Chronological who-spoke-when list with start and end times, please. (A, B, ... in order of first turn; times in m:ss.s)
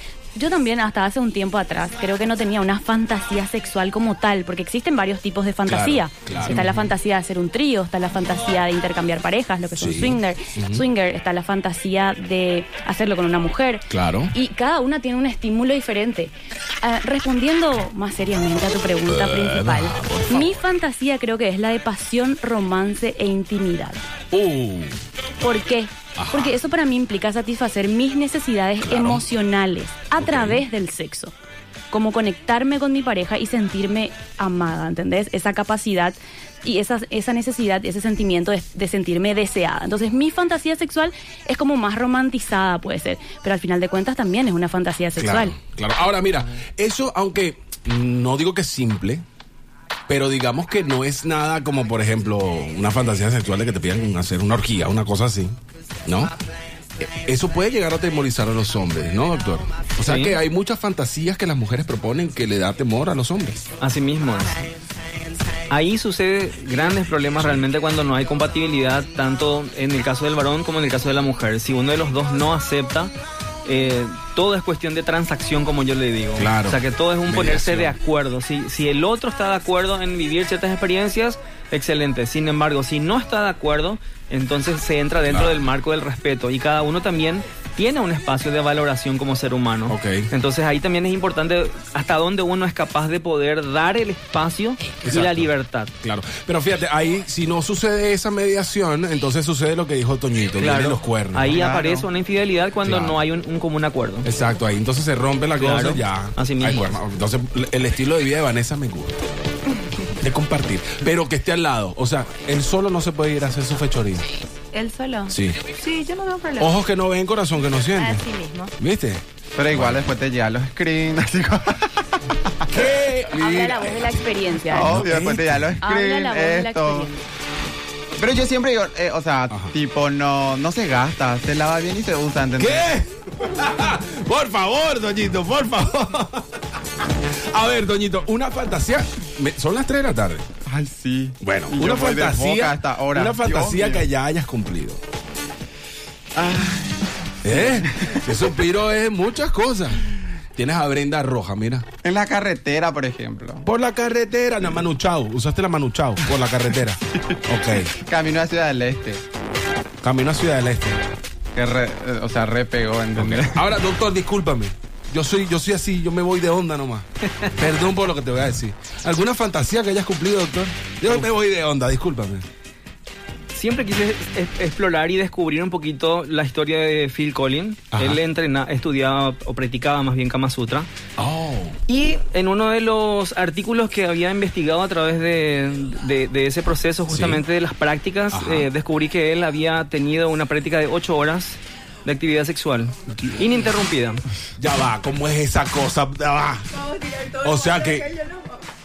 0:00.3-0:24.0 A
0:05.6-0:06.7 B
0:09.8-0:10.8 B
0:13.9-0:14.3 B
0:19.1-0:20.6 B
0:24.3-0:25.0 B
0:25.4-0:31.3 A
0:26.2-0:26.6 B
0:28.8-0:29.2 B
0:30.2-0:30.6 B
0:31.9-0:45.6 A
0:45.2-0:49.2 B
0:50.1-0:56.3 B
0:57.0-1:03.6 B
1:00.0-1:00.4 C
1:03.8-1:04.6 C
1:05.7-1:13.1 C
1:13.6-1:35.9 C
1:16.4-1:18.0 B
1:25.3-1:25.6 B
1:29.9-1:30.3 B
1:35.0-1:41.5 B
1:40.6-1:44.3 C
1:41.5-1:42.0 D
1:42.8-1:43.2 B
1:44.2-1:49.3 B
1:45.6-1:47.0 C
1:50.2-1:54.2 B
1:54.7-1:56.7 E
1:55.3-1:55.6 B
1:56.6-1:58.2 B
1:58.0-1:58.7 E
1:58.8-2:00.0 B
1:59.6-2:02.8 D
2:02.7-2:04.2 B
2:03.4-2:05.1 A
2:04.7-2:07.1 D
2:04.7-2:05.7 B
2:05.8-2:07.2 A
2:08.2-2:12.9 D
2:12.6-2:16.6 B
2:17.5-2:20.4 B
2:20.6-2:24.0 D
2:21.4-2:25.0 B
2:26.3-2:28.3 D
2:27.4-2:31.8 B
2:32.0-2:33.6 D
2:33.6-2:37.9 B
2:37.9-2:39.2 D
2:40.0-2:41.0 B
2:41.6-2:43.6 D
2:43.2-2:52.4 B
2:53.5-3:00.9 C
2:57.9-2:58.2 B
3:01.2-3:01.8 B
3:01.9-3:14.2 C
3:07.1-3:07.4 B
3:08.3-3:08.7 B
3:13.1-3:13.6 B
3:14.6-3:16.8 B
3:17.0-3:18.5 E
3:17.4-3:18.2 B